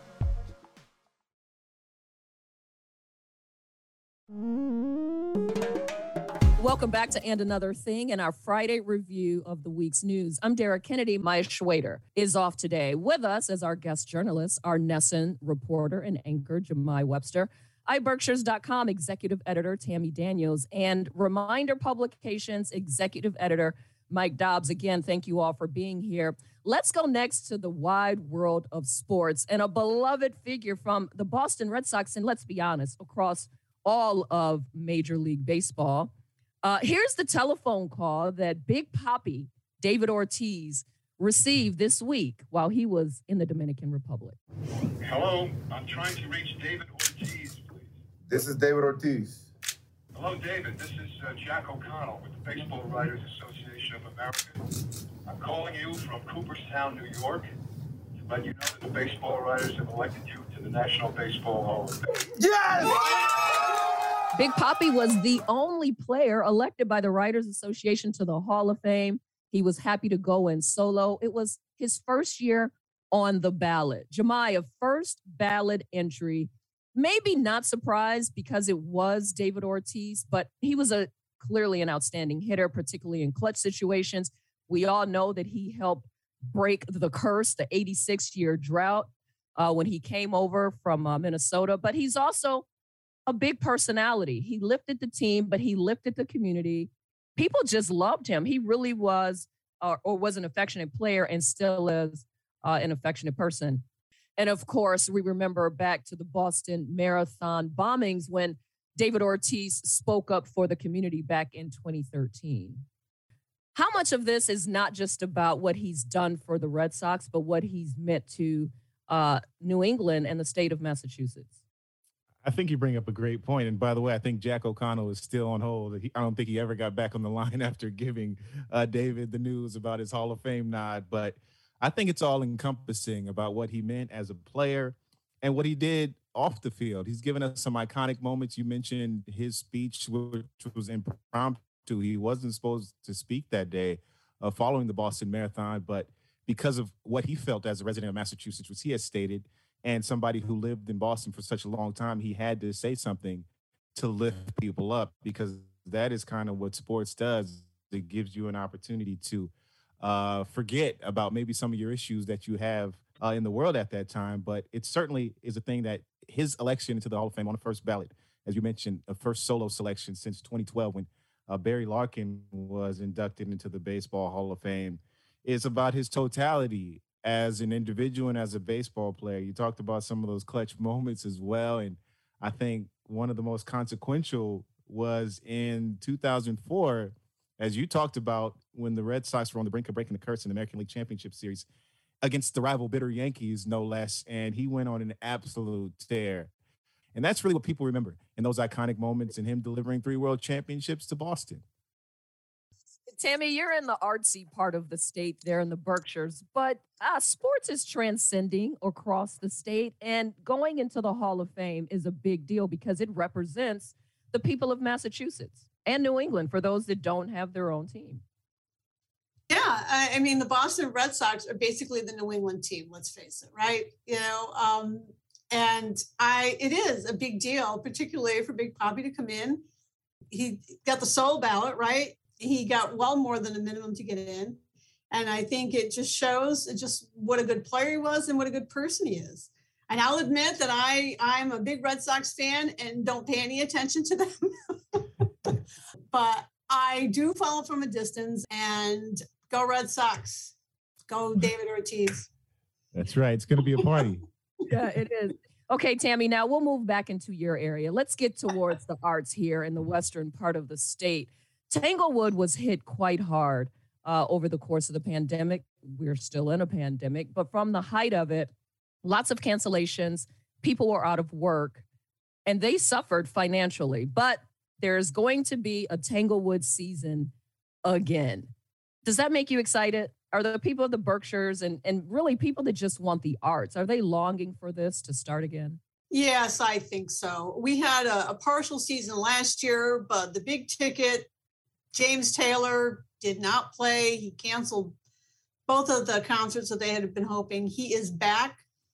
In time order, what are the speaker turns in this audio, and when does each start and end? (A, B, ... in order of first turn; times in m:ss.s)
0:06.6-0:36.1 A
0:36.6-0:44.4 A
0:45.0-0:48.0 B
0:48.3-0:49.5 C
0:50.1-0:54.6 B
0:55.2-0:57.4 B
0:58.2-1:02.1 B
1:02.4-1:03.1 C
1:04.3-1:32.6 A
1:33.3-1:43.8 A
1:44.4-1:52.8 A
1:53.7-2:01.5 A
2:02.4-3:11.6 D
3:12.2-3:16.5 D
3:17.1-3:21.6 D
3:23.1-3:38.2 A
3:39.5-3:49.6 E
3:50.3-3:54.6 E
3:55.1-4:05.6 E
4:06.1-4:10.5 E
4:11.1-4:12.3 E
4:12.9-4:14.2 D
4:14.6-4:28.5 A
4:29.0-4:31.8 A
4:32.4-4:37.3 A
4:37.8-4:38.5 A
4:39.0-4:45.8 A
4:46.1-4:51.3 E
4:51.9-4:55.0 E
4:55.7-4:58.6 E